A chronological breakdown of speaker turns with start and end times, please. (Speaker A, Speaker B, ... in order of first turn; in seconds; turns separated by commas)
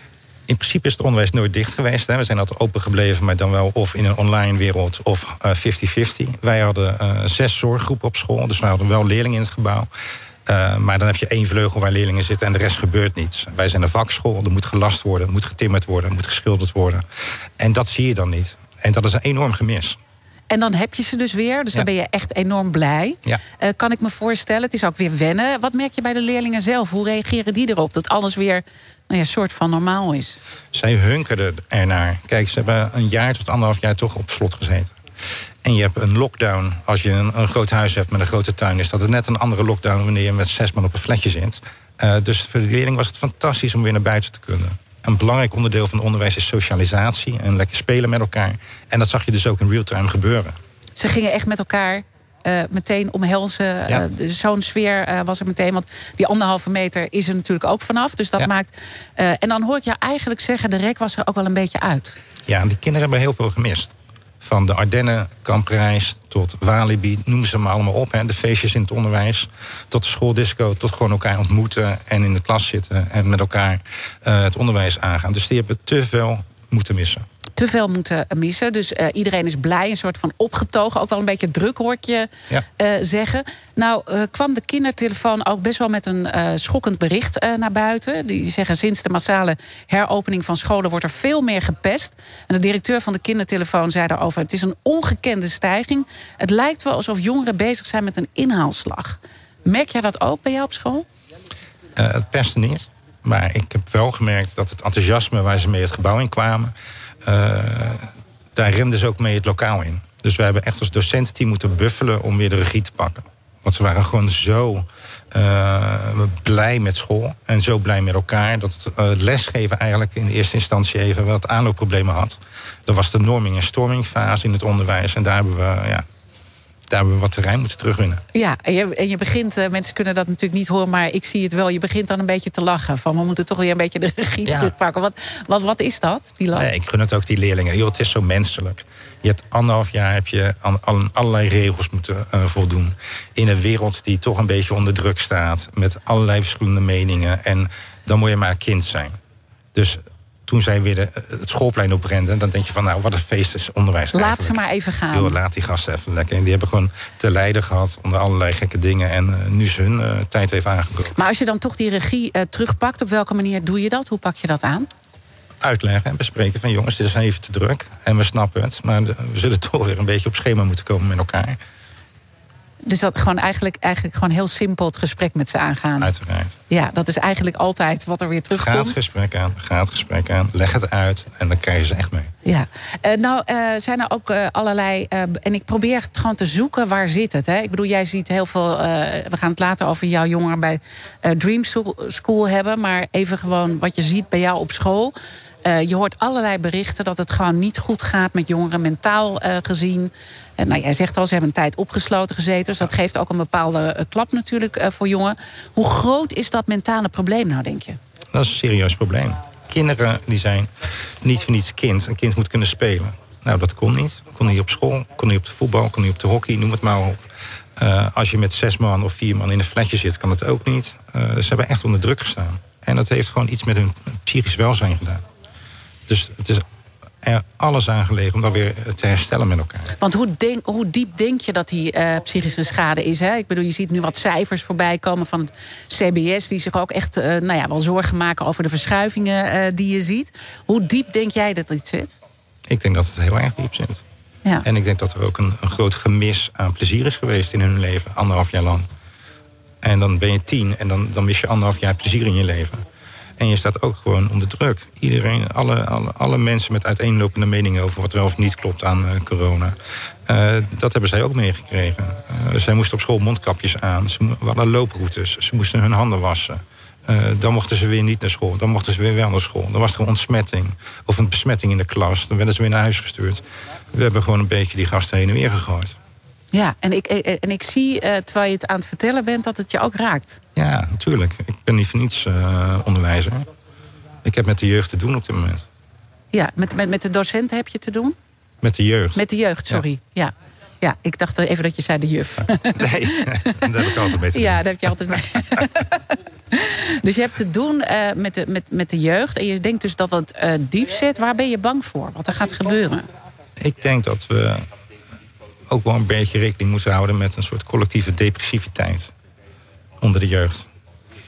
Speaker A: 0.5-9.9, Speaker A: 10.5-17.1, Speaker A: 17.6-20.0, Speaker B: 20.5-30.4, Speaker A: 30.7-35.0, Speaker A: 35.6-50.6, Speaker B: 51.0-62.2, Speaker A: 62.5-77.2, Speaker B: 77.6-101.1, Speaker A: 102.0-106.7, Speaker A: 107.2-126.1, Speaker A: 126.9-128.2, Speaker B: 128.3-136.7, Speaker A: 134.5-134.7, Speaker A: 136.5-149.2, Speaker A: 149.7-154.6, Speaker B: 154.1-155.4, Speaker A: 155.1-161.1, Speaker B: 161.2-164.9, Speaker A: 165.6-171.6, Speaker B: 172.8-176.1, Speaker A: 176.0-176.6, Speaker B: 176.7-179.0, Speaker A: 178.5-182.3, Speaker B: 182.4-208.0, Speaker A: 208.3-217.2, Speaker A: 217.8-225.2, Speaker A: 226.1-226.7, Speaker A: 227.2-229.9, Speaker B: 230.0-242.1, Speaker A: 242.7-244.0, Speaker A: 244.6-248.9, Speaker A: 249.8-252.8, Speaker A: 253.4-276.0, Speaker B: 276.5-280.4, Speaker A: 280.6-283.5, Speaker A: 284.2-285.7, Speaker B: 286.3-288.2, Speaker A: 288.6-289.8, Speaker B: 289.1-303.1, Speaker A: 292.7-295.6, Speaker A: 303.6-304.6, Speaker A: 305.7-309.1, Speaker A: 310.0-310.7